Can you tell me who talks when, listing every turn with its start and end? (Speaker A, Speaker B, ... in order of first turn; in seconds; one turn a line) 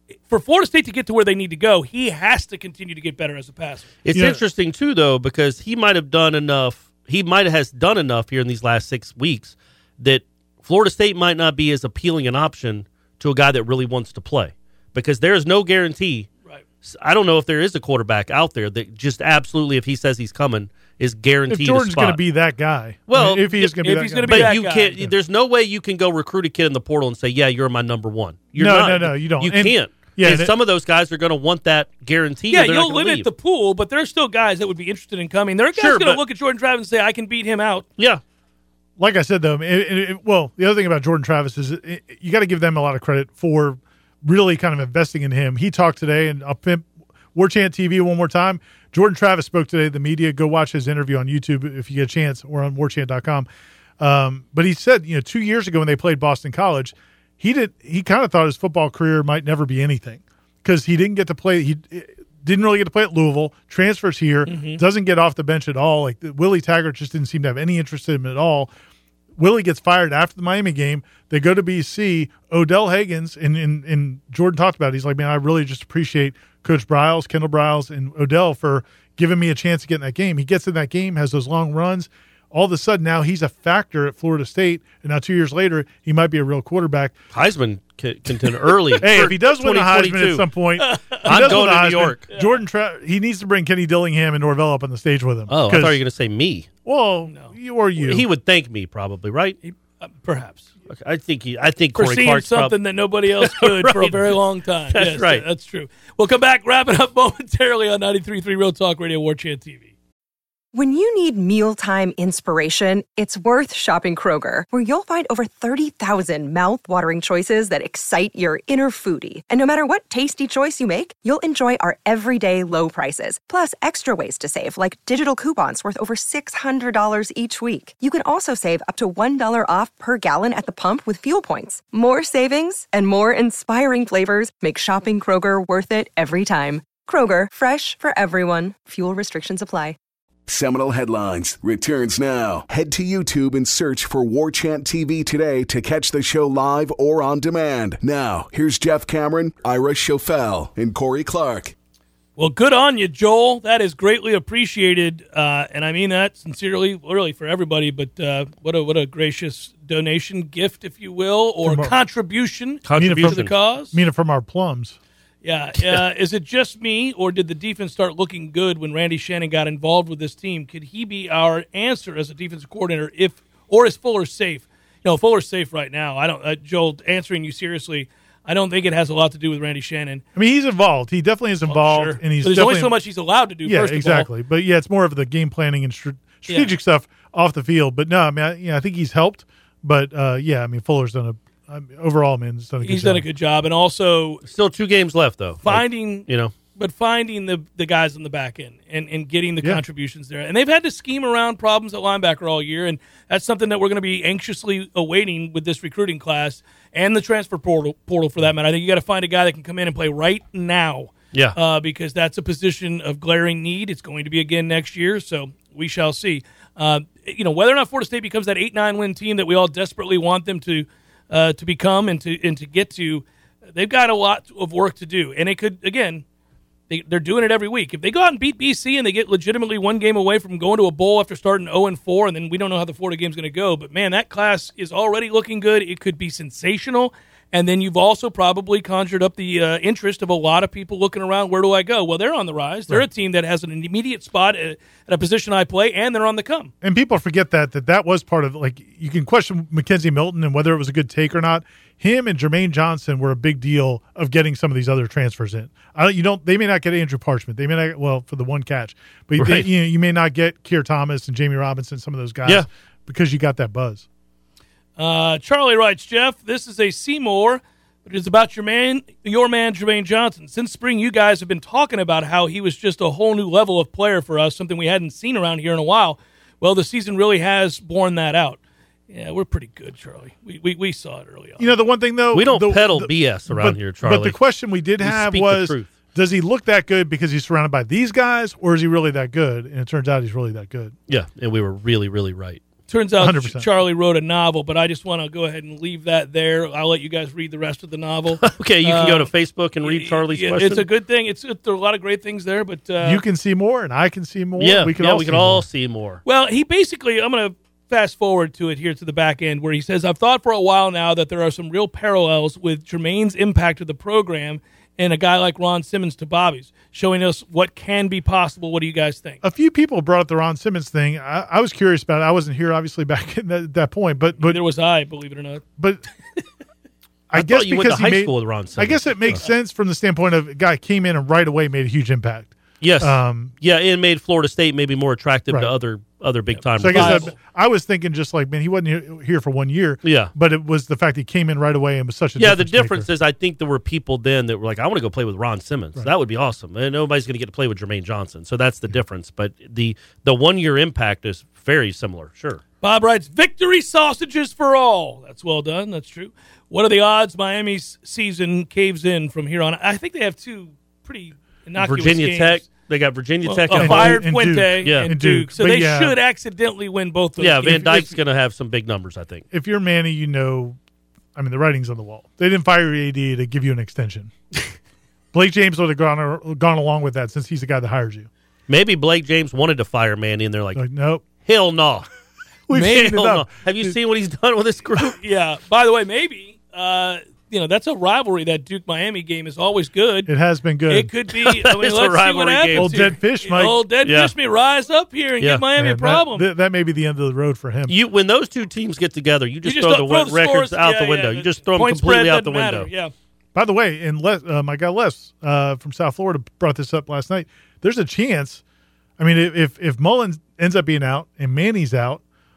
Speaker A: 0.3-3.9
Speaker B: 4.0-16.3
Speaker C: 4.1-4.4
Speaker B: 16.8-22.2
Speaker C: 21.5-25.1
Speaker B: 23.1-33.3
Speaker A: 23.8-24.9
Speaker C: 28.6-30.5
Speaker A: 32.5-37.9
Speaker B: 35.8-36.2
Speaker C: 39.0-53.5
Speaker C: 54.0-68.7
Speaker A: 64.5-64.8
Speaker C: 69.4-87.2
Speaker B: 87.3-90.5
Speaker A: 88.7-89.0
Speaker C: 89.0-96.0
Speaker A: 90.8-91.7
Speaker B: 91.2-92.2
Speaker A: 92.3-92.6
Speaker B: 95.5-96.7
Speaker C: 96.8-98.2
Speaker B: 98.0-99.6
Speaker A: 99.6-100.7
Speaker B: 100.9-102.8
Speaker A: 101.9-109.9
Speaker B: 103.3-104.4
Speaker B: 104.9-105.4
Speaker D: 110.7-139.9
Speaker E: 140.5-151.7
Speaker A: 152.4-163.9
Speaker C: 161.6-161.9
Speaker B: 162.8-163.5
Speaker C: 163.0-165.0
Speaker A: 165.4-180.2
Speaker C: 180.3-183.0
Speaker A: 181.7-184.3
Speaker C: 183.6-193.2
Speaker A: 186.5-186.7
Speaker A: 192.8-194.4
Speaker B: 194.4-196.5
Speaker A: 195.6-226.2
Speaker A: 226.9-246.7
Speaker C: 246.8-264.1
Speaker B: 259.4-259.7
Speaker A: 265.0-278.6
Speaker A: 279.1-281.7
Speaker C: 281.6-290.9
Speaker B: 282.3-284.4
Speaker B: 285.0-285.9
Speaker B: 291.1-292.6
Speaker A: 292.9-299.3
Speaker C: 293.2-293.7
Speaker B: 298.4-300.9
Speaker A: 299.8-303.2
Speaker C: 303.0-305.6
Speaker B: 304.6-306.2
Speaker A: 306.2-319.4
Speaker C: 319.4-324.6
Speaker A: 324.4-325.6
Speaker C: 327.3-333.5
Speaker B: 327.3-329.4
Speaker B: 332.8-337.3
Speaker C: 336.8-343.1
Speaker A: 336.8-337.3
Speaker B: 340.0-340.3
Speaker B: 342.4-352.6
Speaker A: 352.8-362.6
Speaker B: 361.8-364.2
Speaker A: 363.4-368.2
Speaker C: 363.7-366.2
Speaker B: 364.8-365.1
Speaker B: 367.4-369.4
Speaker C: 369.5-370.8
Speaker C: 371.3-374.3
Speaker C: 375.3-378.3
Speaker B: 378.7-380.8
Speaker C: 380.7-381.2
Speaker B: 381.4-382.1
Speaker C: 382.7-383.9
Speaker B: 382.7-385.2
Speaker A: 385.2-390.3
Speaker C: 390.3-391.1
Speaker A: 390.9-396.5
Speaker B: 391.4-393.1
Speaker C: 392.7-393.8
Speaker B: 394.0-394.3
Speaker C: 395.8-397.9
Speaker B: 397.9-402.9
Speaker A: 399.6-403.1
Speaker C: 403.5-408.6
Speaker C: 409.2-412.2